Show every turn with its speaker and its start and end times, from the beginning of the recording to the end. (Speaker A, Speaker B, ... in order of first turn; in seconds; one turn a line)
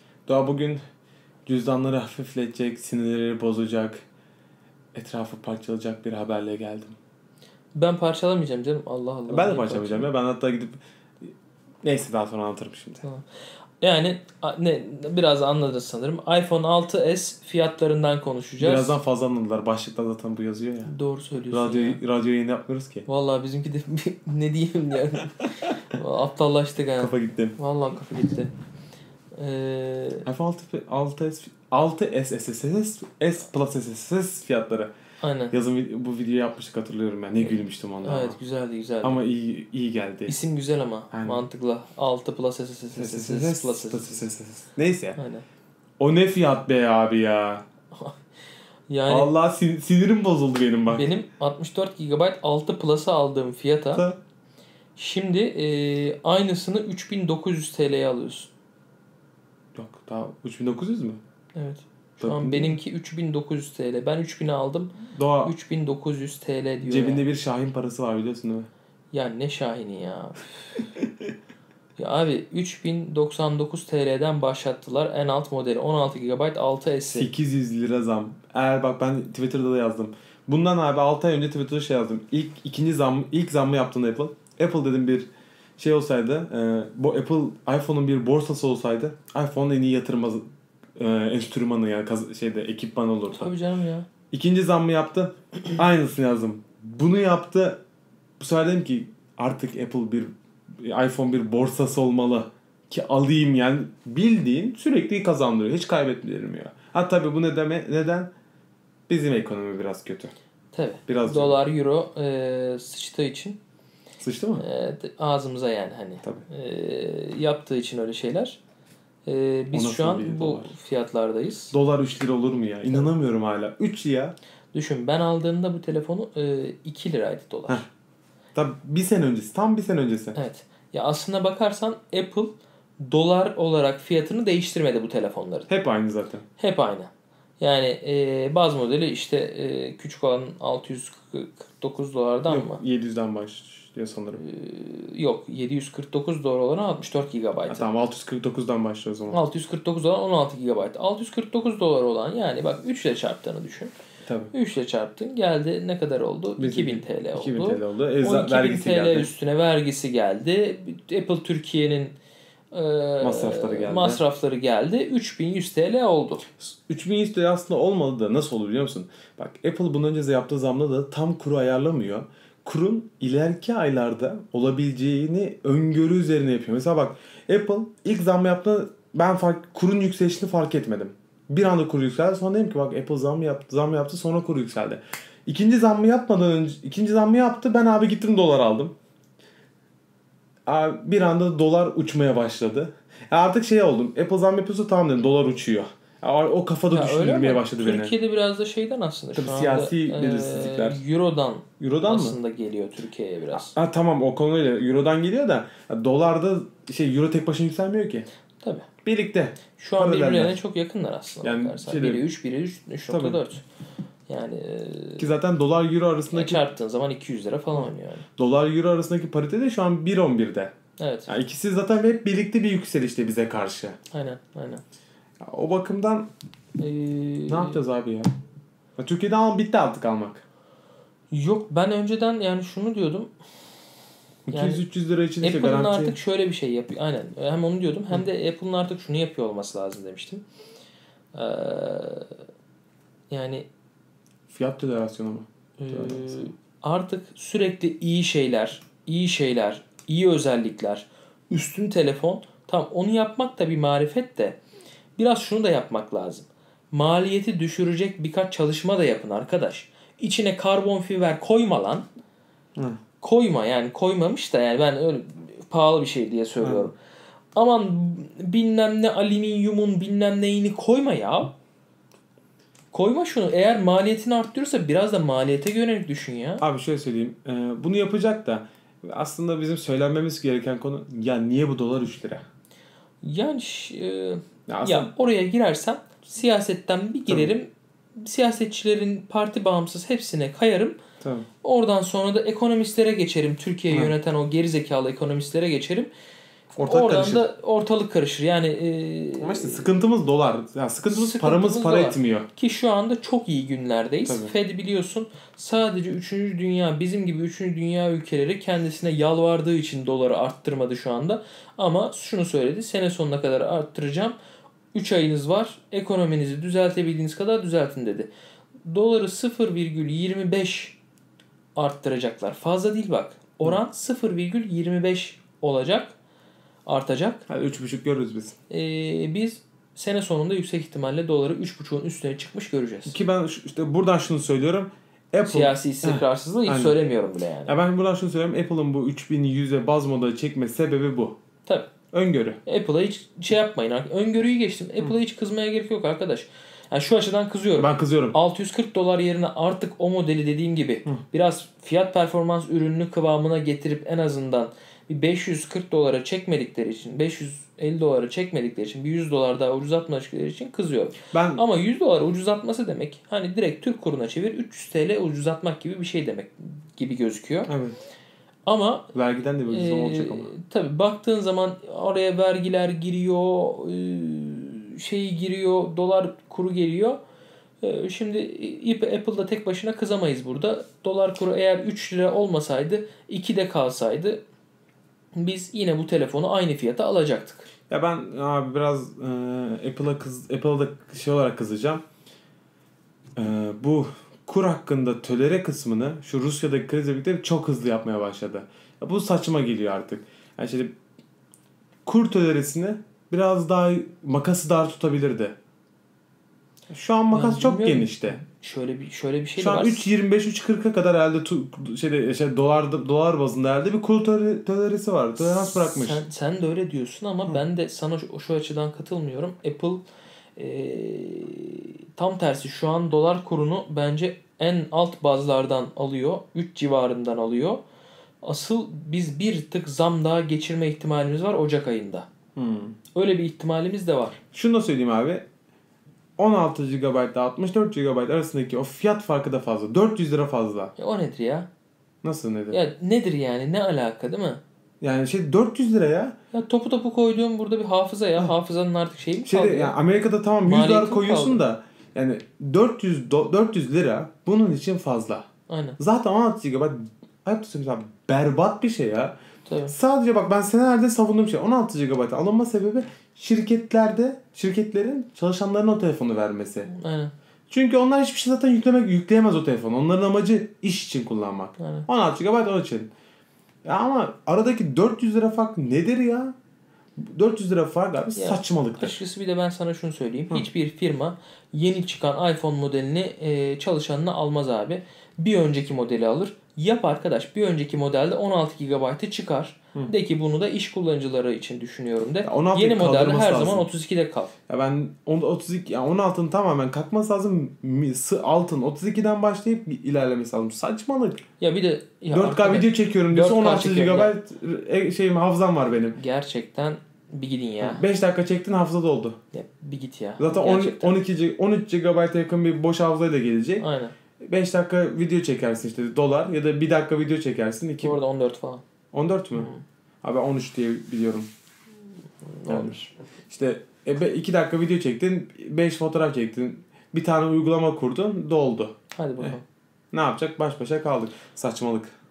Speaker A: 0.3-0.8
Speaker A: 1.5-4.0
Speaker A: 4.9-7.0
Speaker B: 7.8-10.1
Speaker A: 9.3-13.1
Speaker B: 13.8-19.0
Speaker A: 18.6-20.9
Speaker B: 20.9-22.0
Speaker A: 21.5-23.1
Speaker B: 23.1-28.5
Speaker A: 27.0-27.6
Speaker B: 29.4-30.2
Speaker A: 30.3-34.9
Speaker B: 35.2-35.5
Speaker A: 35.5-38.4
Speaker B: 37.4-39.2
Speaker A: 39.0-40.4
Speaker B: 40.3-44.2
Speaker A: 41.1-41.4
Speaker A: 43.0-45.2
Speaker B: 45.2-45.5
Speaker A: 46.0-47.6
Speaker B: 48.9-49.3
Speaker A: 49.1-51.1
Speaker B: 50.9-54.1
Speaker A: 53.9-54.2
Speaker B: 55.0-58.5
Speaker A: 59.8-61.2
Speaker B: 61.6-67.3
Speaker A: 62.2-62.8
Speaker A: 65.1-65.5
Speaker A: 66.8-68.7
Speaker B: 69.1-70.9
Speaker B: 72.0-77.3
Speaker A: 77.1-90.4
Speaker A: 91.0-93.5
Speaker B: 93.3-94.1
Speaker A: 94.3-97.8
Speaker A: 98.4-108.3
Speaker A: 109.1-110.3
Speaker B: 110.7-113.6
Speaker A: 111.1-111.6
Speaker A: 114.2-114.7
Speaker B: 114.6-118.6
Speaker B: 119.3-121.8
Speaker A: 119.7-120.7
Speaker A: 121.7-124.4
Speaker B: 124.7-127.9
Speaker A: 128.6-130.4
Speaker B: 130.3-135.7
Speaker A: 135.7-136.4
Speaker B: 136.6-142.8
Speaker A: 142.5-144.4
Speaker B: 144.4-147.8
Speaker A: 147.7-149.4
Speaker B: 149.3-153.9
Speaker A: 154.2-154.5
Speaker B: 154.5-162.2
Speaker A: 156.6-159.3
Speaker B: 162.7-166.5
Speaker A: 163.2-164.2
Speaker A: 166.6-188.9
Speaker A: 190.7-198.1
Speaker B: 196.9-203.7
Speaker A: 199.3-201.0
Speaker A: 201.8-202.4
Speaker A: 203.5-208.3
Speaker B: 208.6-208.9
Speaker A: 209.1-210.6
Speaker B: 209.8-213.6
Speaker A: 211.4-212.2
Speaker A: 213.1-213.4
Speaker B: 214.3-215.3
Speaker A: 215.2-216.6
Speaker B: 216.3-218.3
Speaker A: 218.4-220.7
Speaker B: 221.0-221.3
Speaker A: 221.3-224.0
Speaker B: 224.1-224.8
Speaker A: 225.4-226.3
Speaker B: 226.8-227.8
Speaker A: 227.5-228.3
Speaker A: 229.0-230.4
Speaker B: 231.3-233.3
Speaker A: 234.5-236.2
Speaker B: 234.5-234.8
Speaker B: 235.4-240.4
Speaker B: 241.3-242.3
Speaker B: 243.3-243.7
Speaker A: 244.5-246.5
Speaker B: 245.8-254.6
Speaker B: 255.2-262.1
Speaker B: 263.2-266.9
Speaker A: 266.6-266.9
Speaker B: 267.6-271.5
Speaker B: 272.9-276.6
Speaker A: 276.6-282.5
Speaker B: 283.2-291.0
Speaker A: 284.7-285.1
Speaker A: 287.3-287.5
Speaker A: 291.2-291.5
Speaker B: 291.6-296.1
Speaker A: 296.8-297.4
Speaker B: 296.8-299.9
Speaker A: 299.4-302.5
Speaker B: 301.1-314.4
Speaker A: 304.2-304.5
Speaker B: 314.9-318.3
Speaker B: 318.9-321.0
Speaker B: 321.8-326.1
Speaker B: 326.9-327.4
Speaker A: 327.5-328.6
Speaker B: 328.7-333.1
Speaker A: 333.1-337.0
Speaker B: 335.4-337.8
Speaker A: 337.7-341.4
Speaker B: 341.7-341.9
Speaker A: 342.1-342.6
Speaker B: 342.6-367.7
Speaker A: 347.8-348.4
Speaker A: 361.3-361.6
Speaker A: 367.7-368.0
Speaker B: 368.7-369.1
Speaker A: 369.1-370.5
Speaker B: 369.7-377.2
Speaker B: 377.8-384.4
Speaker B: 385.4-387.7
Speaker A: 387.9-392.0
Speaker A: 393.4-400.9
Speaker A: 402.1-405.6
Speaker A: 406.9-408.4
Speaker B: 407.3-410.1
Speaker A: 409.6-416.2
Speaker B: 415.7-420.0
Speaker B: 420.6-427.8
Speaker B: 428.4-432.3
Speaker A: 432.6-433.0
Speaker B: 433.1-434.4
Speaker A: 434.5-435.5
Speaker A: 436.4-440.9
Speaker B: 441.0-441.7
Speaker A: 442.2-442.8
Speaker B: 442.7-444.6
Speaker A: 445.0-446.4
Speaker B: 446.5-449.9
Speaker A: 449.4-455.5
Speaker B: 450.6-451.6
Speaker B: 455.7-456.0
Speaker A: 456.0-459.4
Speaker B: 459.7-459.9
Speaker A: 459.9-466.9
Speaker B: 466.9-467.3
Speaker A: 467.7-473.1
Speaker B: 471.8-472.1
Speaker A: 473.9-476.6
Speaker A: 477.2-479.2
Speaker B: 478.4-494.6
Speaker A: 492.4-493.9
Speaker A: 494.7-501.4
Speaker B: 501.6-504.4
Speaker A: 502.3-506.2
Speaker B: 506.1-508.0
Speaker A: 507.8-509.4
Speaker B: 509.5-511.2
Speaker A: 510.4-513.9
Speaker B: 513.8-514.1
Speaker A: 514.4-518.2
Speaker B: 518.0-518.8
Speaker A: 519.1-519.7
Speaker B: 519.5-519.8
Speaker A: 520.2-521.5
Speaker B: 522.5-523.1
Speaker A: 522.7-529.6
Speaker B: 529.1-529.6
Speaker A: 530.1-532.1